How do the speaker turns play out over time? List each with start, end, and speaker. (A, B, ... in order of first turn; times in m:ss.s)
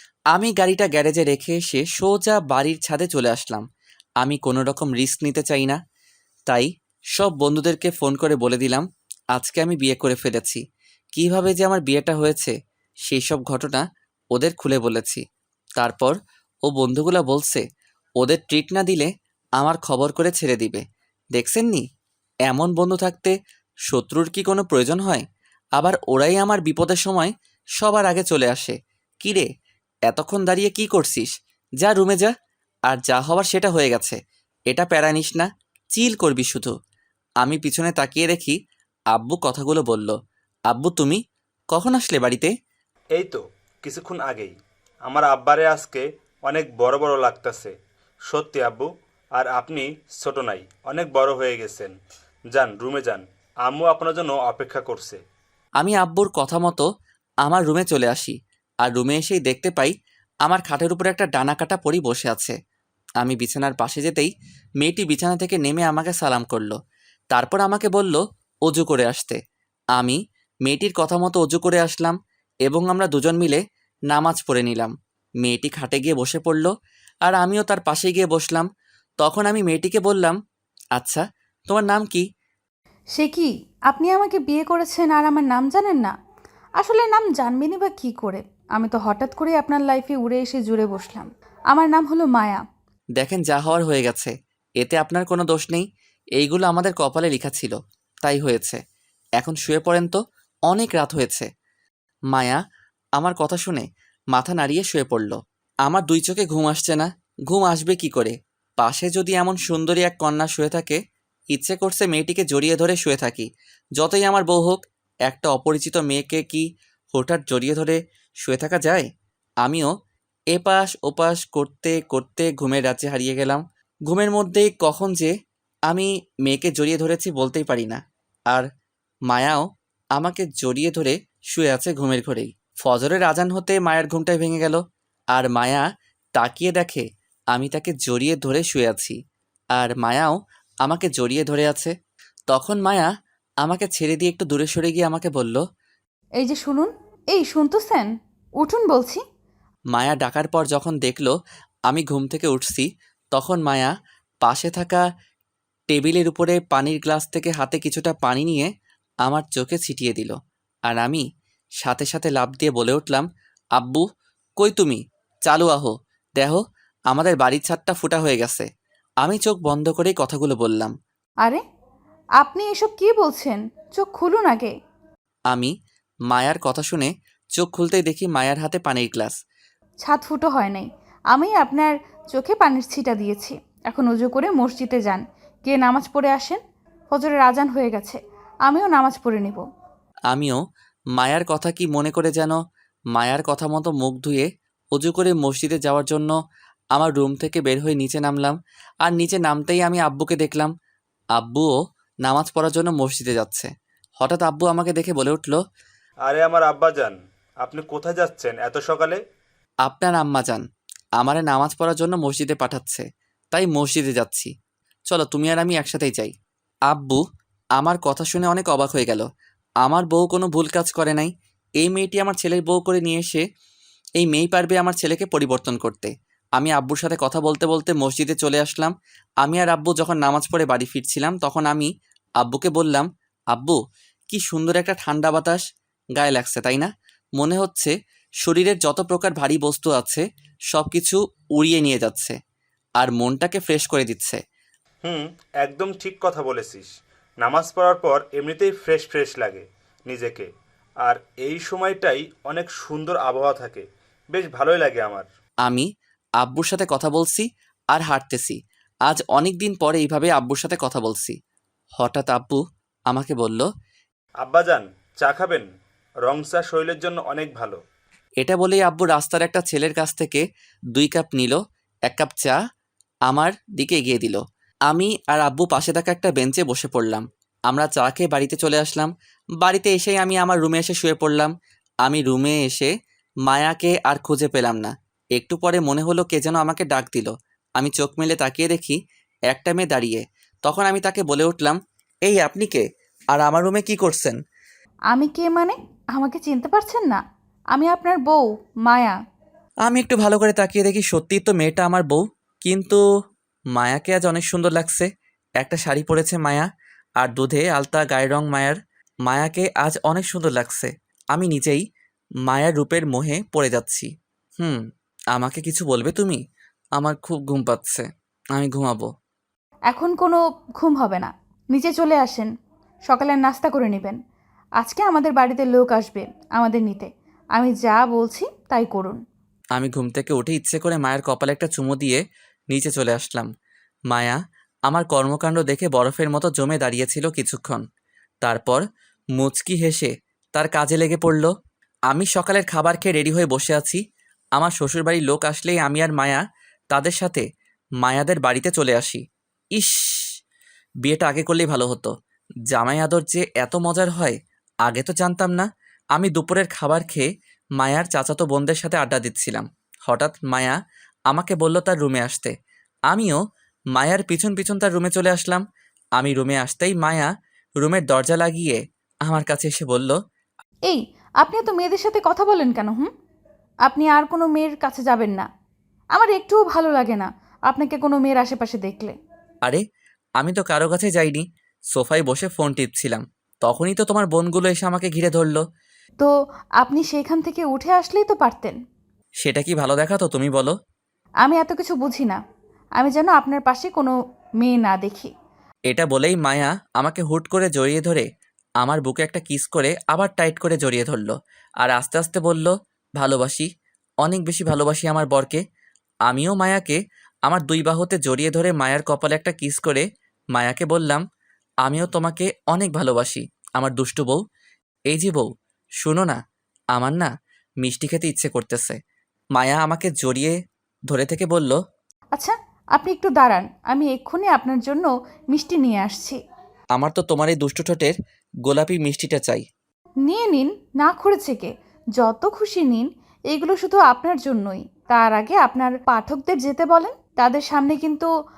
0:00.3-0:03.6 A
0:04.2-0:05.8 A
0:06.5-0:10.6 A
0:11.1-0:12.5 A
0:13.1-0:15.2 A
0:15.8-0:16.1 A
0:16.6-0:17.6 A
0:18.2-0:20.8 A
0:21.3-0:21.8 A
0:22.5-0:23.3 A
0:23.9-0:25.2 A
0:25.8-0:29.5 A
0:30.1-0:32.3 A
0:32.9-0:34.2 A
0:34.7-0:36.7 A
0:37.4-0:38.6 A
0:39.1-0:40.1 A
0:40.7-0:41.2 A
0:41.7-0:42.5 A
0:43.1-0:44.5 B
0:45.0-0:47.7 B
0:48.3-0:51.9 B
0:52.5-0:55.2 B
0:55.8-0:56.9 A
0:57.4-0:59.9 A
1:00.4-1:02.5 A
1:03.2-1:06.8 A
1:07.3-1:09.4 A
1:10.0-1:14.9 A
1:15.4-1:16.7 A
1:17.2-1:18.7 A
1:19.2-1:20.4 A
1:21.0-1:22.2 A
1:23.2-1:26.1 C
1:26.8-1:32.6 C
1:33.2-1:35.9 A
1:36.4-1:38.8 A
1:39.4-1:41.5 A
1:42.3-1:42.6 A
1:43.2-1:51.0 A
1:51.5-1:59.0 A
1:59.6-1:59.9 A
2:00.5-2:05.3 A
2:05.9-2:08.7 A
2:09.3-2:14.8 A
2:15.3-2:19.2 A
2:19.8-2:21.9 A
2:22.5-2:23.1 A
2:23.6-2:25.6 A
2:26.4-2:28.1 C
2:28.6-2:29.2 C
2:29.9-2:31.3 A
2:31.9-2:33.9 A
2:34.4-2:35.0 A
2:35.9-2:38.7 A
2:39.2-2:40.4 A
2:40.9-2:41.2 A
2:41.8-2:43.2 A
2:43.8-2:44.0 A
2:44.6-2:48.6 A
2:49.2-2:50.9 A
2:52.4-2:54.7 C
2:56.3-2:59.4 A
3:00.0-3:06.6 C
3:07.1-3:09.6 C
3:10.3-3:10.6 A
3:11.2-3:12.6 A
3:13.1-3:16.4 A
3:16.9-3:20.7 A
3:21.4-3:21.7 A
3:22.2-3:25.6 A
3:26.2-3:29.2 B
3:29.8-3:30.6 A
3:31.2-3:34.5 A
3:35.1-3:36.3 A
3:36.9-3:37.2 A
3:37.8-3:39.2 A
3:39.8-3:43.4 A
3:44.2-3:51.9 A
3:52.4-3:53.8 A
3:54.3-3:55.6 A
3:56.2-4:02.4 A
4:03.0-4:04.4 A
4:05.0-4:06.9 B
4:07.4-4:10.5 B
4:11.0-4:15.3 B
4:16.4-4:21.4 A
4:22.0-4:23.7 A
4:24.4-4:25.6 B
4:26.2-4:27.8 B
4:28.4-4:32.6 A
4:33.3-4:41.5 A
4:42.0-4:42.9 A
4:43.5-4:49.0 A
4:49.5-4:54.4 A
4:55.1-4:57.2 C
4:57.8-4:59.2 C
4:59.9-5:03.0 A
5:03.7-5:05.1 A
5:05.6-5:06.7 A
5:07.2-5:11.8 A
5:12.5-5:14.8 A
5:15.3-5:16.4 A
5:17.0-5:19.1 A
5:19.9-5:22.5 C
5:23.1-5:24.2 C
5:24.8-5:29.2 C
5:29.8-5:33.5 A
5:34.1-5:37.8 A
5:38.4-5:38.8 A
5:39.4-5:41.5 A
5:42.1-5:44.0 A
5:44.6-5:47.4 A
5:48.0-5:49.2 A
5:49.8-5:50.3 A
5:51.0-5:52.1 A
5:52.7-5:57.3 A
5:57.8-6:00.8 A
6:01.3-6:02.5 A
6:03.1-6:03.4 A
6:03.9-6:05.6 A
6:06.2-6:10.1 A
6:10.9-6:13.1 C
6:13.9-6:15.4 C
6:16.1-6:19.2 C
6:20.4-6:21.4 A
6:21.9-6:25.6 A
6:26.2-6:28.8 C
6:29.4-6:30.8 A
6:31.4-6:32.4 C
6:33.0-6:35.3 C
6:35.9-6:38.2 A
6:38.8-6:43.7 A
6:44.2-6:45.6 A
6:46.3-6:51.2 A
6:51.8-6:54.4 A
6:55.1-6:55.5 A
6:56.0-6:56.4 A
6:56.9-6:57.3 A
6:57.8-6:59.0 A
6:59.5-7:00.6 A
7:01.1-7:01.8 A
7:02.3-7:06.4 C
7:07.0-7:08.1 A
7:08.6-7:09.6 A
7:10.2-7:18.3 C